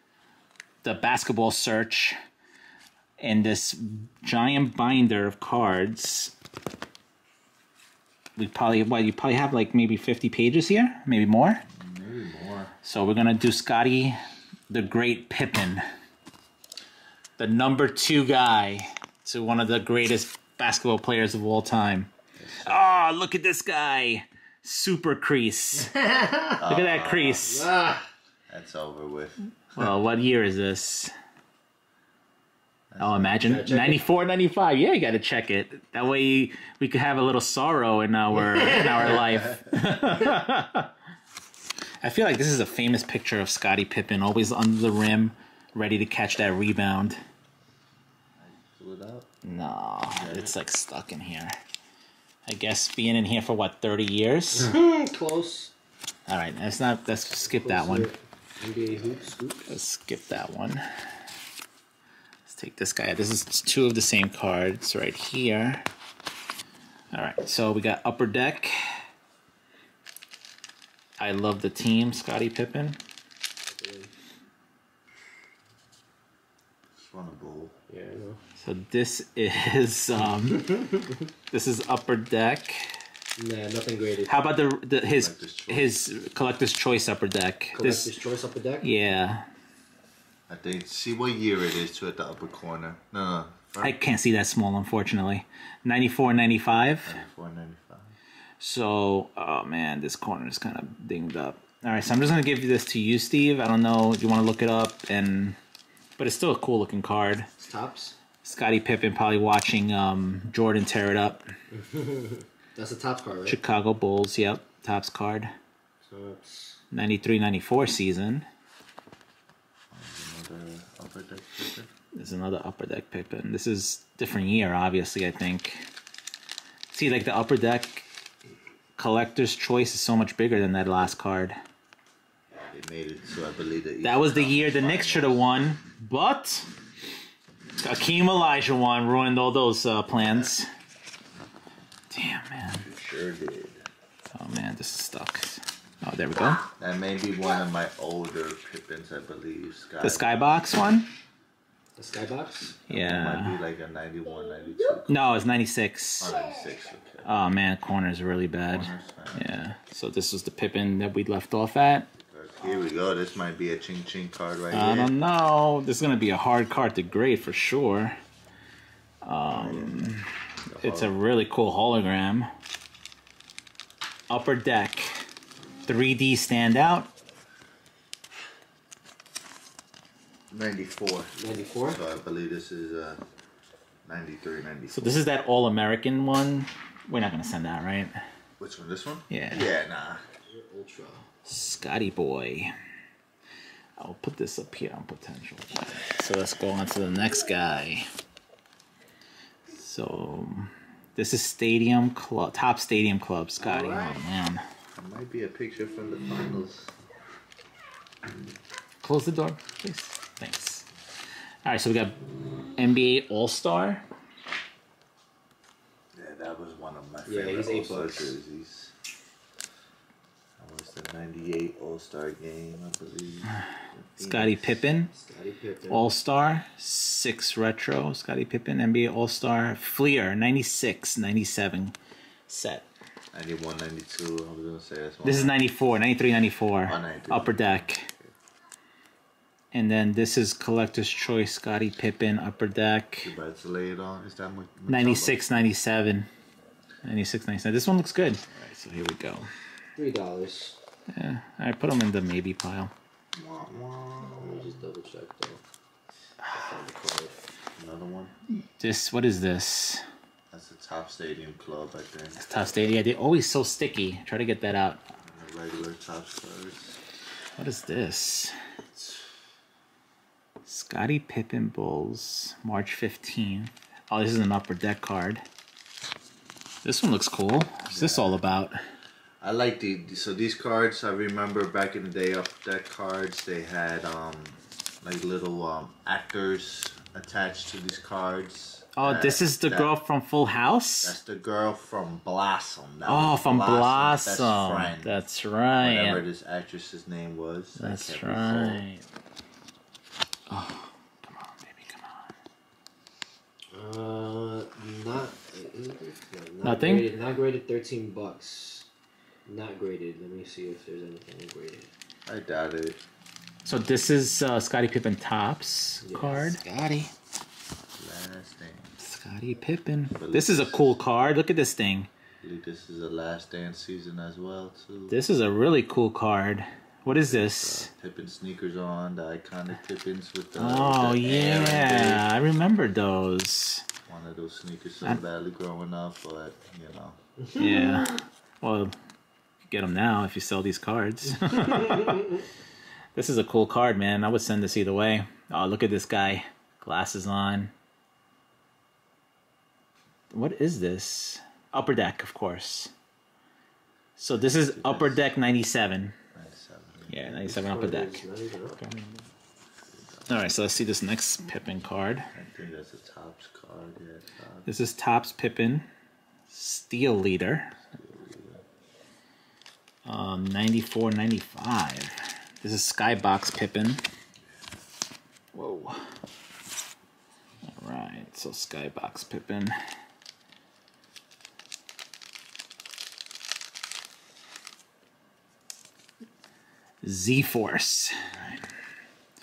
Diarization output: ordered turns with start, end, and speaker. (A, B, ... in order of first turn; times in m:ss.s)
0:00.8-0:02.2 A
0:03.2-0:06.3 A
0:08.4-0:11.6 A
0:11.7-0:12.7 B
0:12.8-0:14.2 A
0:14.7-0:15.8 A
0:17.4-0:26.0 A
0:22.4-0:22.9 B
0:25.9-0:26.6 C
0:26.6-0:27.7 B
0:26.6-0:27.7 A
0:27.4-0:28.0 C
0:28.5-0:29.4 B
0:29.7-0:31.1 A
0:32.9-0:33.5 B
0:33.0-0:40.9 A
0:33.4-0:34.0 C
0:42.0-0:47.2 A
0:48.4-0:49.3 B
0:49.4-0:51.6 A
0:50.1-0:50.5 B
0:52.4-0:54.7 A
0:54.5-0:55.7 C
0:56.3-0:58.1 A
0:57.4-0:59.7 C
0:59.0-0:59.3 B
0:59.7-1:00.8 A
1:02.4-1:05.8 A
1:07.1-1:08.7 A
1:11.2-1:13.0 A
1:13.7-1:14.1 C
1:17.0-1:17.7 B
1:17.9-1:18.4 C
1:18.6-1:20.8 A
1:20.5-1:21.2 C
1:21.5-1:22.8 A
1:23.4-1:24.4 C
1:24.3-1:28.1 A
1:25.2-1:25.9 B
1:27.7-1:28.8 C
1:28.8-1:29.4 A
1:30.5-1:34.0 B
1:33.8-1:37.2 A
1:37.0-1:38.1 B
1:38.6-1:45.6 A
1:46.2-1:47.5 A
1:47.6-1:48.2 C
1:48.4-1:51.4 A
1:51.7-1:53.6 C
1:53.4-1:55.5 A
1:56.0-1:56.8 C
1:56.9-1:58.4 A
1:59.9-2:01.9 B
2:02.2-2:05.8 A
2:06.9-2:08.0 A
2:09.0-2:11.6 A
2:12.5-2:15.5 B
2:14.0-2:16.7 A
2:17.8-2:20.7 A
2:20.2-2:20.5 B
2:22.1-2:22.8 A
2:22.6-2:23.8 B
2:24.3-2:26.6 A
2:26.8-2:30.4 B
2:30.0-2:31.1 A
2:32.0-2:32.8 C
2:32.9-2:35.2 B
2:32.9-2:33.6 A
2:35.1-2:36.4 A
2:36.2-2:37.3 B
2:37.2-2:42.1 A
2:38.7-2:39.5 B
2:42.2-2:45.1 B
2:44.7-2:48.2 A
2:49.2-2:52.5 A
2:49.5-2:50.1 B
2:50.6-2:51.2 B
2:54.3-2:55.1 A
2:55.8-2:57.1 A
3:00.5-3:03.2 B
3:01.4-3:02.0 C
3:04.0-3:05.2 B
3:04.9-3:08.2 A
3:08.6-3:10.2 B
3:09.3-3:09.7 A
3:10.5-3:11.2 C
3:11.4-3:12.7 A
3:14.0-3:18.1 A
3:19.7-3:24.6 A
3:23.6-3:24.2 C
3:25.0-3:26.9 B
3:29.0-3:30.9 A
3:31.6-3:32.2 A
3:32.8-3:34.0 A
3:36.1-3:38.9 B
3:37.2-3:38.3 C
3:40.6-3:44.6 B
3:44.2-3:45.1 A
3:45.1-3:46.1 C
3:45.9-3:51.9 A
3:52.5-3:52.8 A
3:53.3-3:55.6 B
3:55.2-3:58.1 A
3:56.8-3:58.3 B
3:59.7-4:03.3 A
4:03.2-4:05.4 B
4:04.9-4:06.3 A
4:07.0-4:09.5 A
4:09.9-4:10.8 C
4:11.1-4:12.9 A
4:13.3-4:14.8 B
4:14.4-4:15.6 C
4:16.5-4:17.4 C
4:17.8-4:18.3 B
4:18.8-4:20.0 A
4:20.5-4:22.4 B
4:22.4-4:25.0 A
4:25.2-4:27.0 B
4:27.6-4:28.5 A
4:29.0-4:29.2 B
4:30.6-4:35.4 A
4:36.8-4:38.8 A
4:37.9-4:38.4 B
4:39.4-4:49.9 B
4:49.0-4:51.2 A
4:51.0-4:55.1 B
4:53.0-4:56.2 A
4:55.8-4:58.8 B
4:57.8-4:59.0 A
5:00.5-5:02.3 A
5:03.7-5:08.9 C
5:06.6-5:07.1 A
5:09.4-5:11.9 C
5:12.2-5:13.0 B
5:13.6-5:16.6 A
5:16.0-5:17.1 C
5:18.0-5:19.0 B
5:19.0-5:22.1 A
5:20.1-5:21.0 B
5:22.4-5:25.2 B
5:25.1-5:27.9 A
5:27.1-5:32.3 B
5:30.6-5:33.8 A
5:34.1-5:37.2 B
5:37.5-5:39.0 A
5:39.7-5:42.4 A
5:43.2-5:47.7 A
5:50.3-5:52.9 A
5:54.2-5:56.1 A
5:54.6-5:55.2 B
5:56.3-5:57.4 B
5:57.1-5:59.3 A
5:57.4-5:58.8 C
5:59.9-6:00.5 B
6:00.3-6:02.3 A
6:02.3-6:04.7 B
6:04.6-6:05.9 A
6:06.5-6:07.8 A
6:07.9-6:08.6 B
6:10.0-6:14.0 A
6:15.5-6:16.1 A
6:17.7-6:19.8 A
6:27.0-6:28.3 A